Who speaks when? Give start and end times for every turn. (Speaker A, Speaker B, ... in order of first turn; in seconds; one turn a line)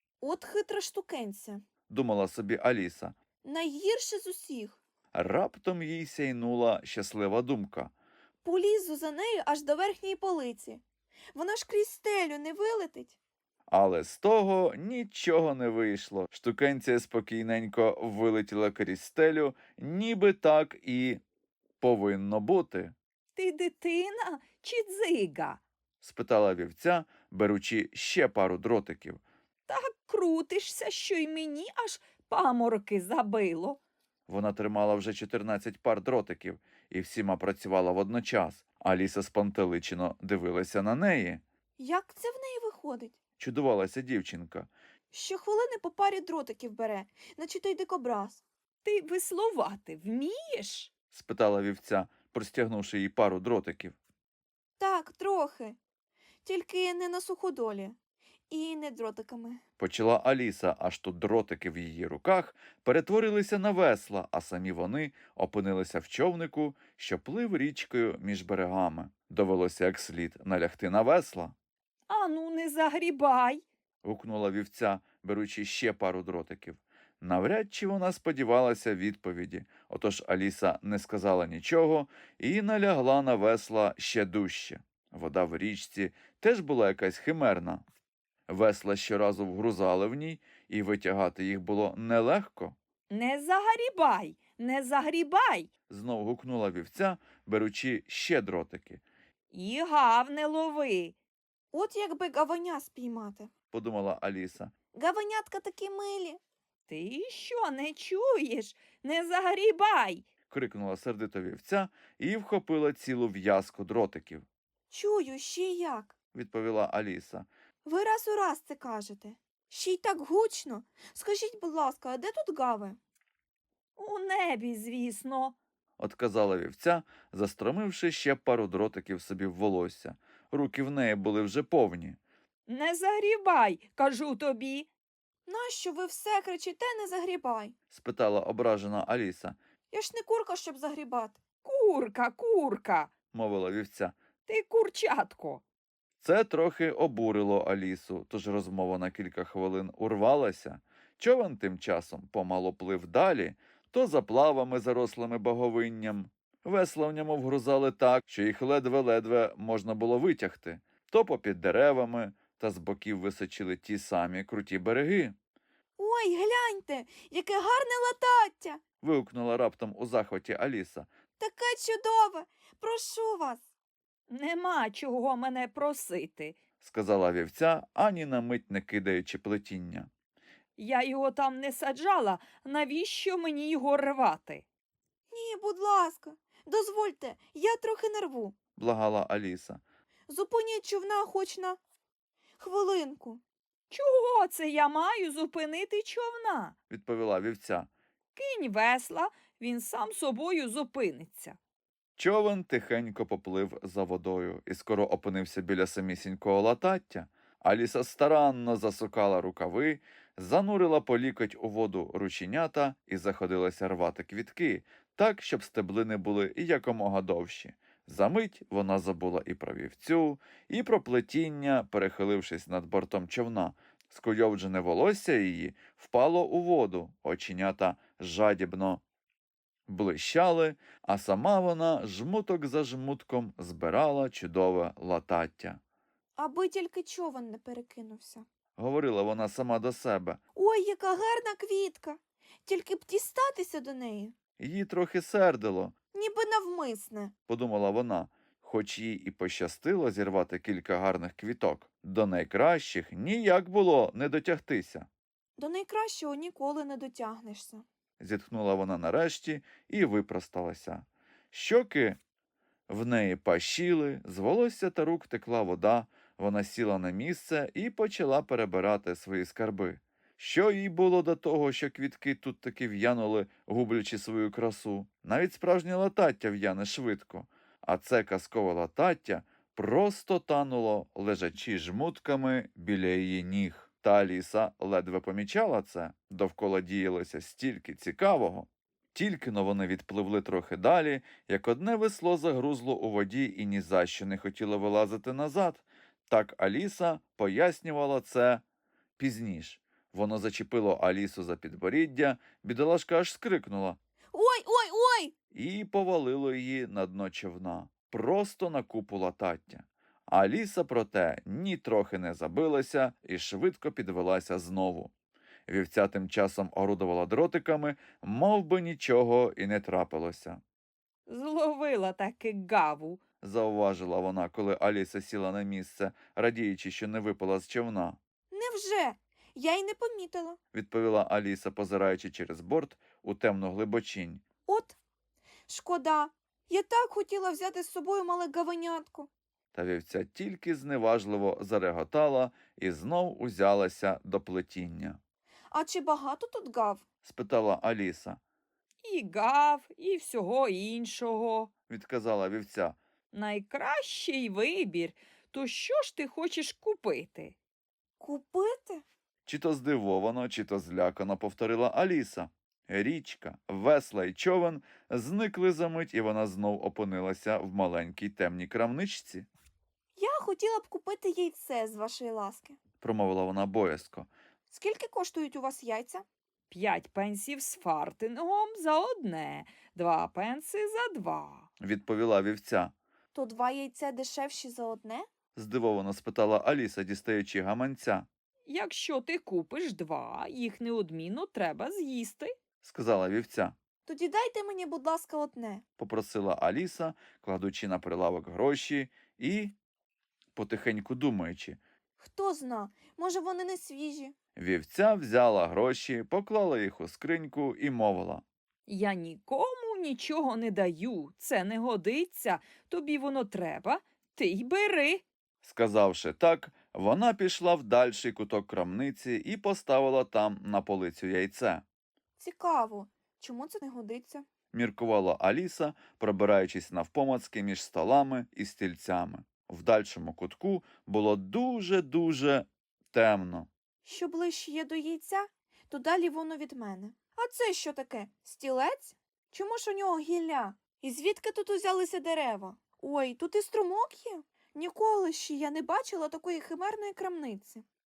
Speaker A: 0.2-1.6
Speaker B: 1.9-3.1
Speaker A: 3.4-4.8
Speaker B: 5.1-7.9
Speaker A: 8.4-10.8
Speaker A: 11.3-13.2
Speaker B: 13.7-21.2
Speaker B: 21.8-22.9
Speaker C: 23.3-25.6
Speaker B: 26.0-29.2
Speaker C: 29.7-33.8
Speaker B: 34.3-41.4
Speaker A: 41.8-43.1
Speaker B: 43.4-44.7
Speaker A: 45.1-48.4
Speaker C: 48.8-50.9
Speaker B: 51.1-54.0
Speaker A: 54.8-55.8
Speaker A: 56.4-58.0
Speaker A: 58.5-59.6
Speaker B: 59.8-71.5
Speaker C: 72.1-73.6
Speaker B: 74.0-87.8
Speaker B: 88.5-92.8
Speaker C: 93.1-95.7
Speaker B: 95.9-99.0
Speaker C: 99.5-101.1
Speaker A: 101.7-103.5
Speaker B: 103.7-104.7
Speaker A: 104.9-106.4
Speaker C: 106.9-110.2
Speaker B: 110.5-114.4
Speaker A: 114.9-116.2
Speaker B: 116.3-117.5
Speaker A: 117.8-123.0
Speaker C: 124.0-125.5
Speaker B: 126.0-132.2
Speaker C: 132.7-134.9
Speaker A: 135.5-137.8
Speaker B: 137.9-139.6
Speaker A: 139.9-141.4
Speaker C: 141.6-143.1
Speaker B: 143.3-144.2
Speaker C: 144.4-145.6
Speaker B: 146.2-165.3
Speaker A: 166.0-168.8
Speaker B: 169.0-171.1
Speaker A: 171.4-173.7
Speaker C: 174.3-176.6
Speaker B: 176.8-180.1
Speaker C: 180.8-184.7
Speaker A: 185.3-188.6
Speaker B: 188.8-189.8
Speaker A: 190.3-191.8
Speaker A: 192.6-193.4
Speaker C: 193.9-196.8
Speaker B: 196.9-197.9
Speaker C: 198.3-201.6
Speaker B: 202.2-229.0
Speaker B: 229.9-235.8
Speaker A: 236.3-238.4
Speaker B: 238.8-240.4
Speaker A: 240.6-244.3
Speaker B: 244.6-245.9
Speaker A: 246.1-247.3
Speaker B: 247.5-255.1
Speaker A: 255.6-257.9
Speaker B: 258.2-262.2
Speaker B: 262.9-298.6
Speaker B: 299.2-304.0
Speaker A: 304.3-305.3
Speaker B: 305.5-315.1
Speaker B: 315.7-320.6
Speaker C: 321.2-323.2
Speaker B: 323.4-328.2
Speaker A: 328.5-330.6
Speaker B: 330.7-334.4
Speaker A: 334.6-335.0
Speaker A: 335.7-339.3
Speaker B: 339.7-345.2
Speaker A: 345.7-347.0
Speaker B: 347.2-348.4
Speaker C: 349.0-351.7
Speaker B: 351.9-353.0
Speaker C: 353.3-357.6
Speaker A: 358.2-359.0
Speaker B: 359.4-369.5
Speaker A: 370.2-372.8
Speaker B: 373.0-374.3
Speaker A: 374.7-376.2
Speaker C: 376.7-381.7
Speaker B: 381.8-382.9
Speaker A: 383.3-385.3
Speaker B: 385.5-388.3
Speaker C: 388.7-392.5
Speaker B: 392.8-393.8
Speaker A: 394.1-395.8
Speaker B: 396.0-399.7
Speaker B: 400.5-401.8
Speaker A: 402.2-404.3
Speaker B: 404.6-408.4
Speaker C: 408.9-415.2
Speaker B: 415.6-421.8
Speaker A: 422.4-424.5
Speaker B: 424.7-433.7
Speaker A: 434.0-447.8